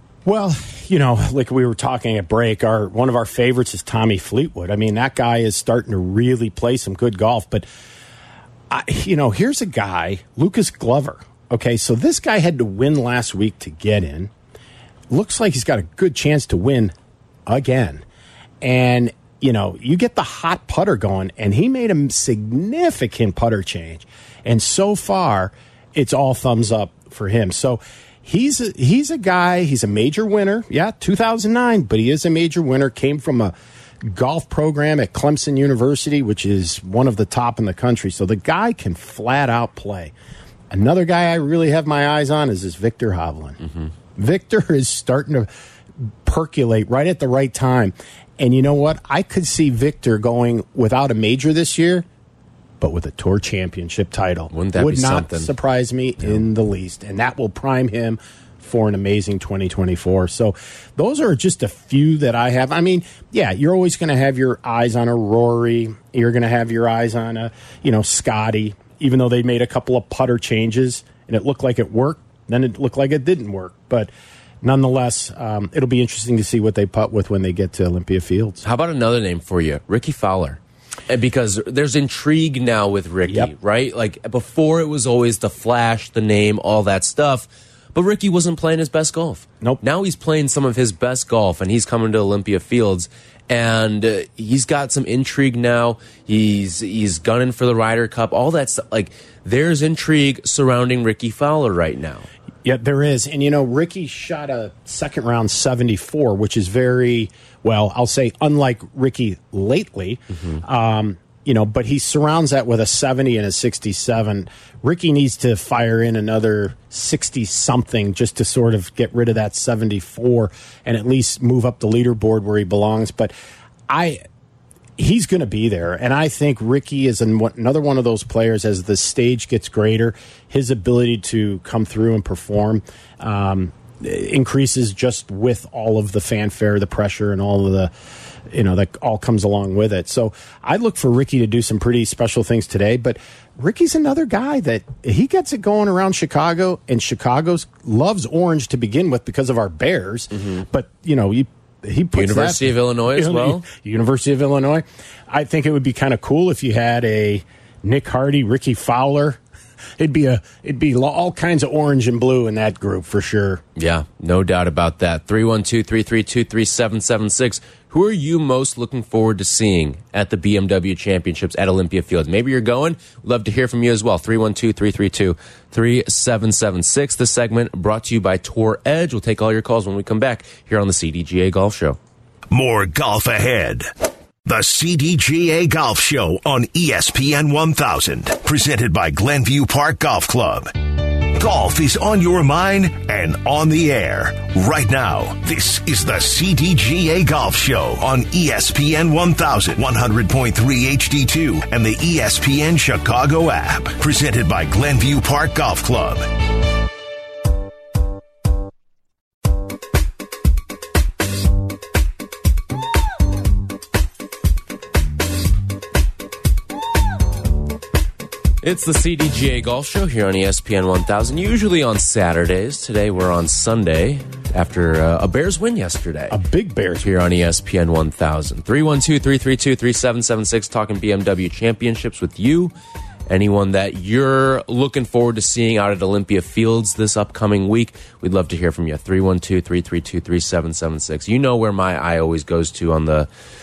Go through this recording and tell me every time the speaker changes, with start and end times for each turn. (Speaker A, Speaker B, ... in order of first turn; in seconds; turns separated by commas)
Speaker A: 0.2-7.7, Speaker A: 8.7-14.3, Speaker A: 15.1-16.9, Speaker A: 17.5-18.0, Speaker A: 18.6-40.1, Speaker A: 40.7-43.6, Speaker A: 44.2-45.5, Speaker A: 46.0-52.0, Speaker A: 52.8-74.1, Speaker B: 54.5-55.5, Speaker A: 74.6-78.6, Speaker B: 78.6-102.3, Speaker A: 102.7-123.3, Speaker A: 123.9-124.2, Speaker A: 125.0-137.9, Speaker A: 138.5-159.4, Speaker B: 152.2-153.7, Speaker A: 160.0-163.6, Speaker B: 163.8-182.0, Speaker C: 182.5-183.9, Speaker C: 184.4-190.7, Speaker C: 191.3-206.3, Speaker B: 218.6-226.4, Speaker A: 226.3-227.1, Speaker B: 227.0-232.7, Speaker B: 233.3-243.3